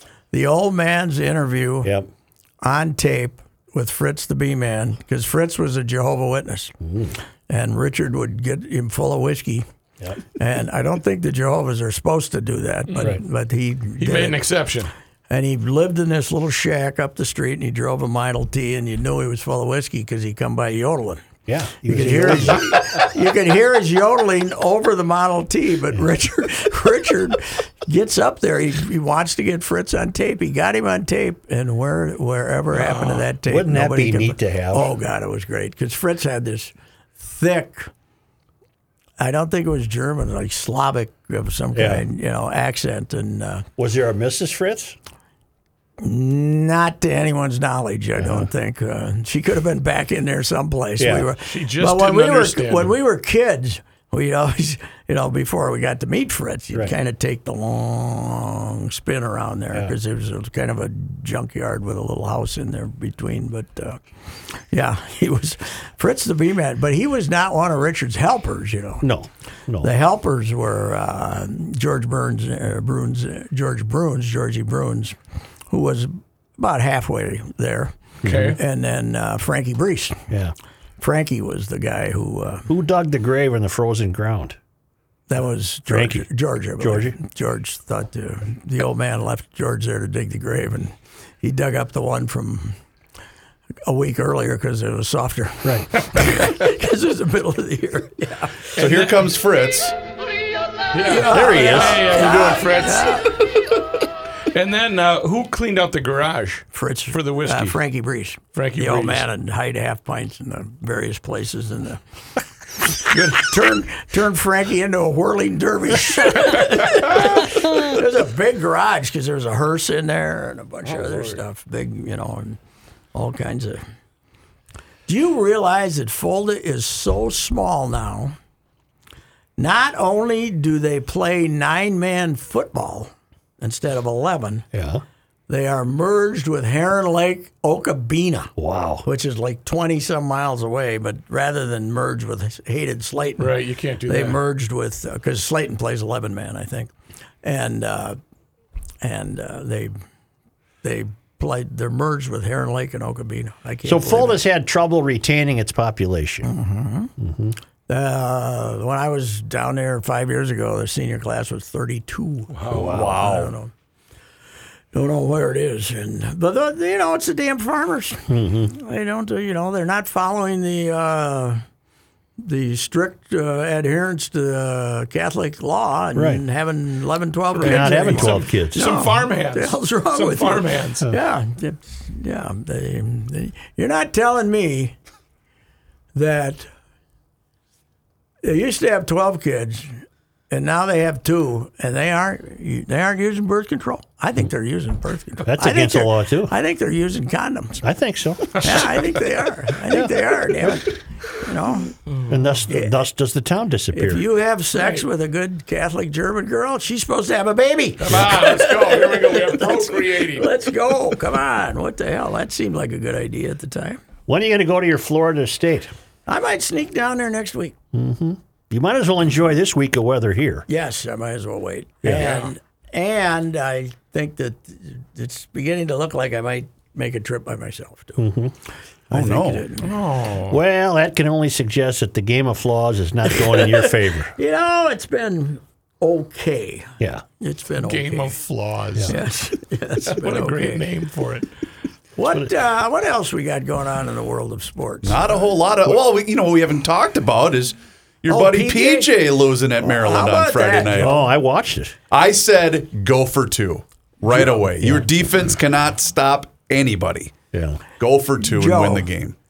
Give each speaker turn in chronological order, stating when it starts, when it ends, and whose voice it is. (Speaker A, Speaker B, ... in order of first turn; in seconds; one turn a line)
Speaker A: 0.3-1.9
Speaker A: 2.6-6.7
Speaker B: 6.8-7.1
Speaker A: 7.5-9.7
Speaker A: 10.3-14.4
Speaker C: 14.0-14.9
Speaker A: 15.3-21.2
Speaker B: 21.5-22.7
Speaker A: 21.8-37.9
Speaker C: 32.7-33.2
Speaker B: 33.5-34.9
Speaker A: 39.2-43.6
Speaker B: 41.7-42.0
Speaker B: 43.8-45.0
Speaker A: 46.0-64.0
Speaker B: 48.2-48.5
Speaker B: 51.0-51.3
Speaker C: 51.4-53.0
Speaker A: 64.6-69.0
Speaker B: 69.0-69.9
Speaker A: 69.8-75.2
Speaker A: 75.7-80.2
Speaker B: 78.2-78.6
Speaker C: 78.2-78.6
Speaker A: 81.0-82.7
Speaker B: 82.7-84.6
Speaker A: 85.3-92.8
Speaker B: 85.9-86.3
Speaker B: 86.8-87.2
Speaker A: 93.8-98.7
Speaker C: 98.8-99.2
Speaker D: 98.8-99.9
Speaker C: 100.9-103.5
Speaker A: 101.0-103.4
Speaker B: 101.2-102.1
Speaker C: 104.5-107.8
Speaker A: 106.7-112.0
Speaker C: 108.5-109.2
Speaker A: 112.9-122.6
Speaker C: 121.0-121.3
Speaker A: 123.1-123.8
Speaker A: 125.1-128.3
Speaker A: 129.6-134.7
Speaker B: 134.7-135.0
Speaker A: 135.5-138.5
Speaker B: 138.6-139.0
Speaker A: 139.0-146.9
Speaker C: 143.4-144.4
Speaker A: 147.4-148.2
Speaker A: 149.0-149.9
Speaker A: 150.8-154.4
Speaker B: 153.8-156.5
Speaker A: 156.4-157.1
Speaker B: 157.2-157.6
Speaker A: 157.9-163.7
Speaker C: 162.5-163.0
Speaker B: 162.7-163.4
Speaker D: 162.9-163.5
Speaker A: 164.9-171.6
Speaker B: 168.3-168.7
Speaker A: 172.4-184.9
Speaker B: 176.1-176.4
Speaker C: 177.5-181.1
Speaker B: 177.6-178.9
Speaker A: 186.1-186.7
Speaker A: 188.4-197.8
Speaker B: 195.4-196.5
Speaker B: 197.8-198.9
Speaker A: 198.5-201.9
Speaker B: 199.9-200.7
Speaker B: 202.3-204.2
Speaker A: 202.7-202.9
Speaker A: 203.9-214.0
Speaker C: 208.0-210.5
Speaker B: 214.3-215.9
Speaker A: 216.3-217.7
Speaker B: 217.9-220.7
Speaker A: 220.7-228.3
Speaker B: 222.0-222.4
Speaker B: 228.2-228.5
Speaker A: 229.1-229.9
Speaker D: 229.1-229.7
Speaker C: 229.8-230.6
Speaker B: 230.5-234.3
Speaker A: 233.3-238.3
Speaker C: 237.8-239.2
Speaker A: 239.0-240.8
Speaker C: 240.1-241.5
Speaker A: 242.2-245.5
Speaker D: 245.0-251.2
Speaker A: 248.3-249.1
Speaker A: 249.8-251.2
Speaker B: 251.0-251.9
Speaker D: 252.1-257.4
Speaker B: 254.3-255.1
Speaker B: 257.5-257.8
Speaker D: 257.9-259.3
Speaker A: 258.4-259.1